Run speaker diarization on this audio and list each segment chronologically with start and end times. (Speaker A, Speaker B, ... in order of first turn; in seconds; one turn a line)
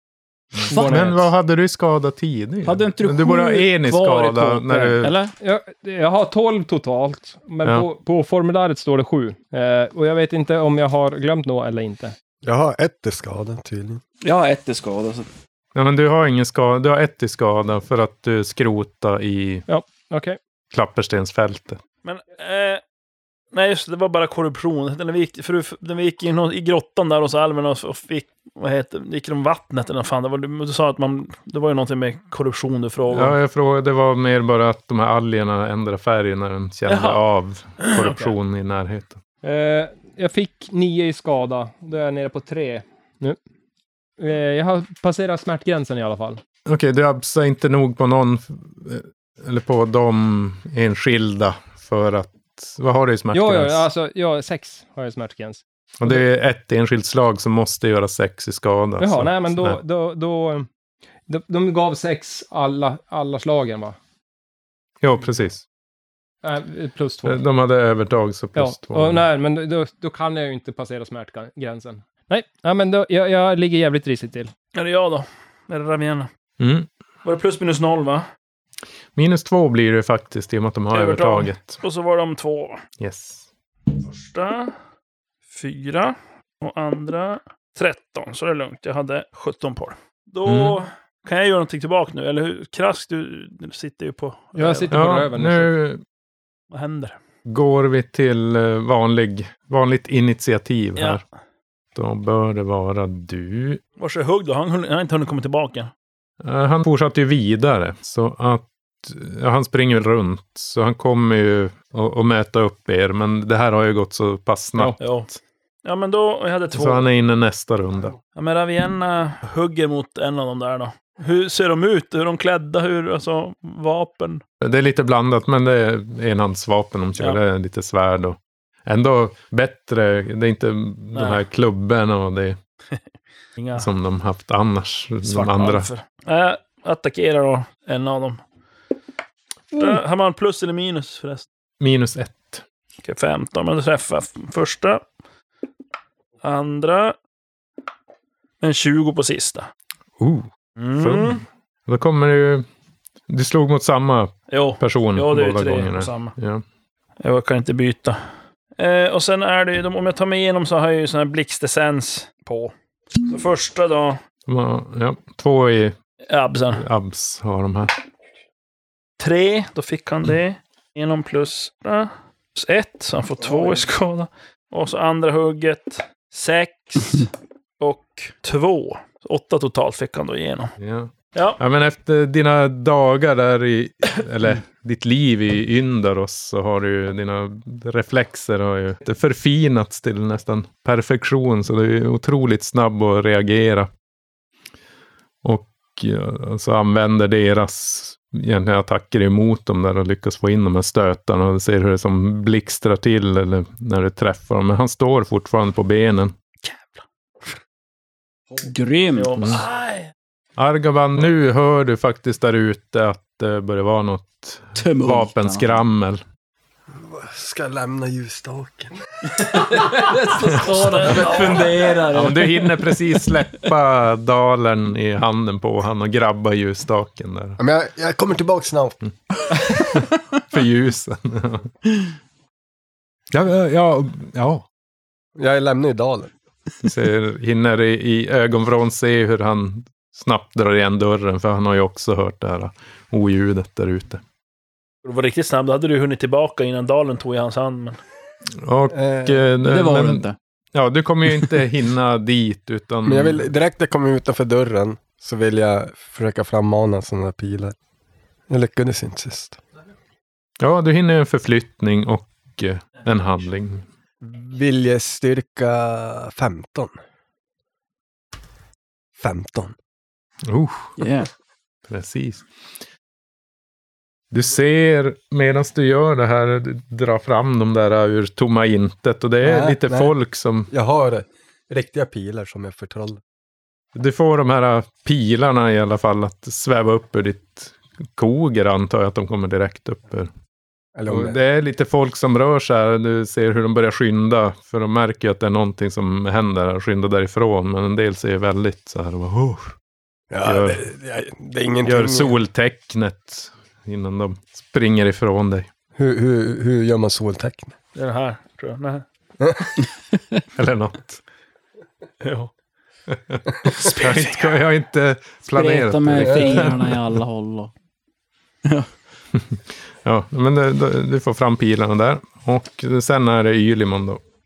Speaker A: 0.5-5.1
Speaker B: 0.6-1.3
Speaker C: 2.6-5.3
Speaker B: 4.7-12.1
Speaker D: 12.4-14.0
Speaker C: 14.2-15.3
Speaker A: 15.7-19.6
Speaker B: 19.7-20.4
Speaker A: 20.7-21.8
Speaker E: 22.0-22.8
Speaker E: 23.5-33.4
Speaker A: 33.1-39.2
Speaker E: 36.9-37.2
Speaker E: 37.8-38.1
Speaker B: 39.4-43.4
Speaker B: 44.2-46.4
Speaker A: 46.6-53.8
Speaker B: 53.3-56.2
Speaker A: 56.0-59.8
Speaker B: 59.0-60.7
Speaker B: 61.3-64.0
Speaker A: 65.0-65.6
Speaker B: 66.4-67.4
Speaker A: 67.2-69.2
Speaker B: 68.5-74.5
Speaker E: 74.7-76.3
Speaker A: 76.6-76.9
Speaker E: 77.2-78.2
Speaker A: 79.1-81.8
Speaker E: 80.9-82.8
Speaker A: 83.0-83.4
Speaker E: 84.0-84.7
Speaker E: 85.5-94.9
Speaker A: 90.4-90.8
Speaker B: 94.5-95.7
Speaker A: 94.9-96.0
Speaker E: 96.7-97.2
Speaker A: 97.5-101.2
Speaker E: 101.0-101.2
Speaker A: 101.9-103.8
Speaker E: 104.0-105.9
Speaker A: 106.4-115.4
Speaker B: 114.7-115.0
Speaker E: 115.0-115.3
Speaker E: 115.8-117.1
Speaker A: 116.7-118.2
Speaker E: 118.3-124.4
Speaker A: 124.6-132.6
Speaker E: 131.1-131.4
Speaker E: 133.6-133.9
Speaker A: 133.8-135.9
Speaker E: 135.2-138.4
Speaker E: 139.7-141.5
Speaker A: 141.8-142.6
Speaker E: 143.0-145.0
Speaker E: 146.4-147.2
Speaker E: 148.6-149.7
Speaker A: 150.2-152.7
Speaker E: 150.8-151.4
Speaker A: 153.3-156.6
Speaker E: 154.5-156.3
Speaker E: 157.2-158.2
Speaker E: 158.8-162.7
Speaker E: 163.3-164.2
Speaker A: 164.5-165.9
Speaker E: 166.3-166.8
Speaker A: 166.8-167.9
Speaker E: 169.2-180.7
Speaker A: 180.8-193.9
Speaker E: 181.3-181.6
Speaker A: 195.4-206.3
Speaker E: 206.6-206.9
Speaker C: 208.6-209.6
Speaker E: 209.1-210.1
Speaker A: 210.6-216.2
Speaker C: 214.8-215.7
Speaker D: 216.9-218.9
Speaker C: 219.5-223.1
Speaker A: 222.1-227.6
Speaker D: 227.6-229.0
Speaker A: 229.8-231.7
Speaker A: 233.3-234.6
Speaker D: 235.4-236.3
Speaker A: 236.8-244.2
Speaker E: 245.0-248.0
Speaker A: 248.6-253.5
Speaker D: 248.9-249.4
Speaker C: 249.7-250.3
Speaker D: 253.0-257.7
Speaker D: 258.5-259.6
Speaker A: 260.6-263.8
Speaker D: 264.2-266.9
Speaker D: 269.2-269.7
Speaker A: 270.5-270.9
Speaker C: 271.0-271.3
Speaker A: 271.9-272.5
Speaker A: 274.3-280.7
Speaker D: 279.4-280.1
Speaker D: 280.7-283.2
Speaker A: 283.9-290.3
Speaker D: 290.9-291.4
Speaker A: 291.1-299.7
Speaker D: 300.3-302.4
Speaker A: 300.4-300.8
Speaker A: 301.9-305.7
Speaker D: 305.9-307.7
Speaker E: 307.9-309.0
Speaker A: 310.6-311.2
Speaker E: 312.2-312.5
Speaker A: 313.1-317.2
Speaker E: 313.8-314.4
Speaker C: 315.5-317.7
Speaker D: 316.2-316.7
Speaker A: 319.3-324.2